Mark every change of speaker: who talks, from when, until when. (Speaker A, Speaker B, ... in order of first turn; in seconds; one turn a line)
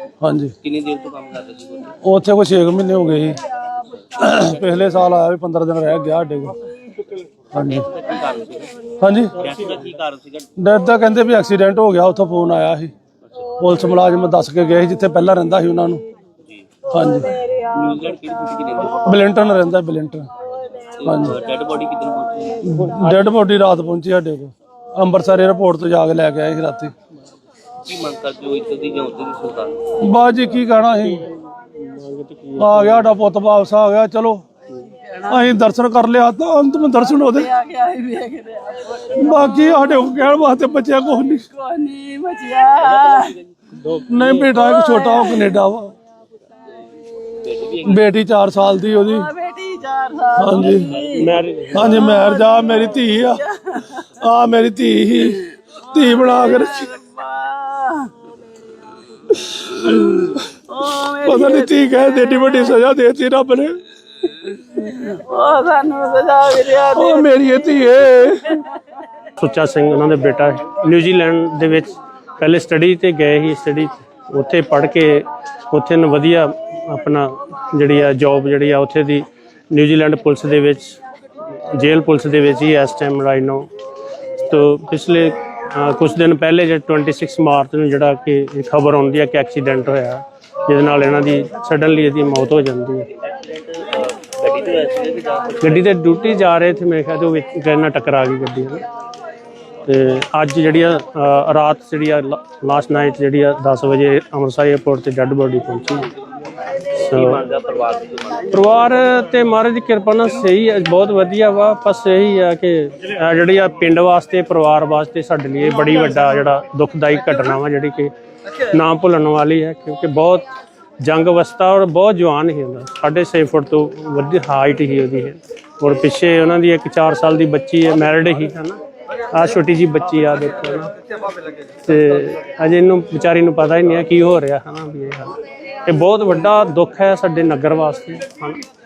Speaker A: 0.2-0.5
Speaker B: 0.6-1.9
Speaker A: 2.0-3.4
Speaker A: 4.1-6.5
Speaker A: 7.5-7.9
Speaker B: 7.7-8.7
Speaker A: 9.0-9.4
Speaker B: 9.4-10.5
Speaker A: 10.6-12.9
Speaker B: 13.2-13.5
Speaker A: 13.6-16.0
Speaker B: 16.4-16.7
Speaker A: 16.9-17.4
Speaker B: 17.6-19.2
Speaker A: 19.0-20.3
Speaker B: 21.0-22.7
Speaker A: 21.0-21.4
Speaker A: 22.6-26.9
Speaker C: 22.8-23.2
Speaker B: 27.8-29.9
Speaker A: 30.0-31.2
Speaker C: 30.8-33.1
Speaker A: 32.6-34.4
Speaker A: 35.2-37.5
Speaker D: 37.4-39.3
Speaker A: 39.0-41.5
Speaker D: 41.5-43.4
Speaker B: 42.8-43.4
Speaker C: 43.7-44.6
Speaker A: 44.1-45.9
Speaker D: 44.7-45.4
Speaker B: 47.3-48.0
Speaker A: 47.8-49.3
Speaker D: 49.1-51.4
Speaker A: 50.4-50.9
Speaker B: 50.7-51.8
Speaker C: 51.1-52.2
Speaker A: 51.7-53.4
Speaker D: 52.0-54.0
Speaker A: 54.0-57.0
Speaker D: 56.0-58.1
Speaker A: 59.3-60.5
Speaker D: 60.7-62.7
Speaker A: 61.1-63.8
Speaker D: 64.8-67.5
Speaker A: 66.9-68.7
Speaker C: 69.4-81.0
Speaker C: 81.7-83.7
Speaker C: 84.4-93.1
Speaker B: 93.2-95.8
Speaker C: 95.6-98.8
Speaker C: 99.8-106.1
Speaker C: 107.0-107.5
Speaker B: 107.1-108.6
Speaker C: 108.5-118.1
Speaker C: 118.7-120.5
Speaker C: 121.0-128.8
Speaker C: 129.3-130.9
Speaker C: 131.8-138.6